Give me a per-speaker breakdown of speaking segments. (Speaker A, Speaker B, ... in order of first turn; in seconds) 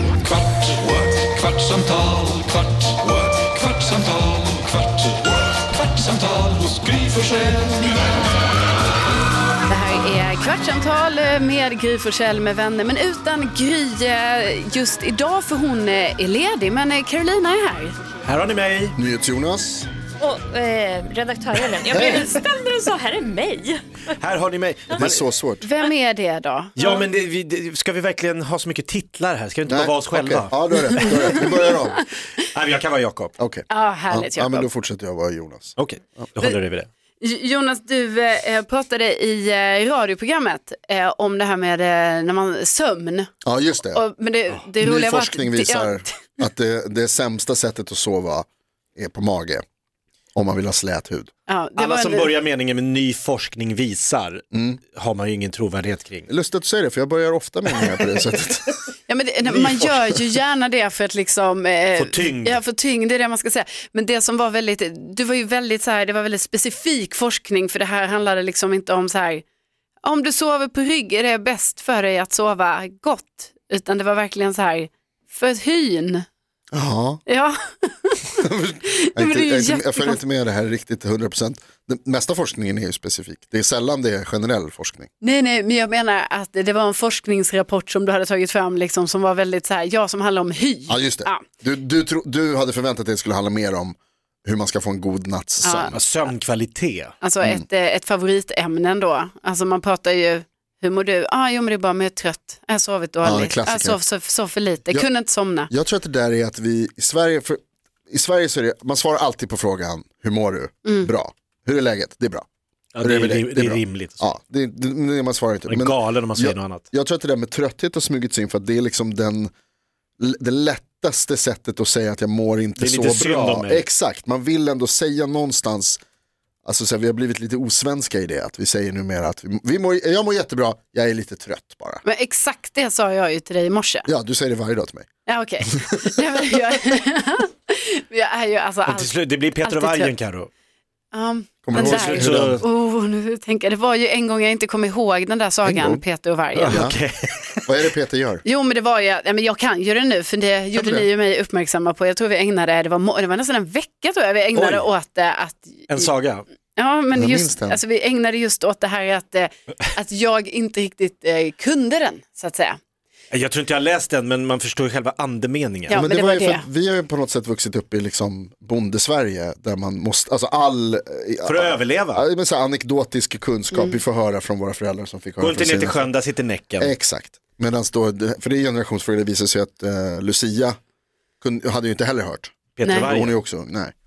Speaker A: 0.6-4.7, 6.0-7.9
Speaker B: 9.7-18.0, 25.6-26.8, 30.9-32.0, 33.7-34.7, 37.2-43.3, 43.9-46.2, 51.5-52.3, 59.1-69.4, 70.0-76.2, 77.3-80.2, 85.2-91.5, 95.6-95.9, 97.2-105.7, 110.8-111.1, 132.0-134.1, 135.3-140.1, 141.1-146.9, 148.4-156.1, 156.8-162.8, 165.9-166.7, 173.7-174.0, 182.8-183.1
Speaker C: 18.2-19.0, 24.2-25.2, 26.8-31.5, 32.4-33.4, 35.8-36.9, 51.8-56.3, 57.7-58.7, 59.5-60.2, 62.0-62.6, 95.9-97.1, 113.0-114.2, 115.7-116.8, 122.8-123.9, 138.9-140.5, 141.7-142.7, 146.6-147.9, 154.6-154.9, 155.9-156.4, 163.3-166.0, 171.5-172.2, 175.4-176.9, 182.8-183.4
Speaker D: 19.0-19.9, 21.9-22.3, 25.0-25.7, 29.7-32.0, 33.4-35.8, 43.4-44.0, 44.8-49.6, 50.4-51.3, 54.5-54.8, 56.3-58.7, 76.7-77.2, 78.4-85.1, 90.9-96.0, 103.2-104.0, 105.7-112.5, 113.0-119.5, 120.2-126.0, 126.7-132.0, 134.1-135.1, 135.6-136.0, 141.6-142.6, 145.6-146.0, 146.7-147.0, 147.7-148.4, 150.8-151.1, 157.1-157.8, 165.9-176.1, 176.8-180.8, 181.4-183.9
Speaker E: 20.2-24.0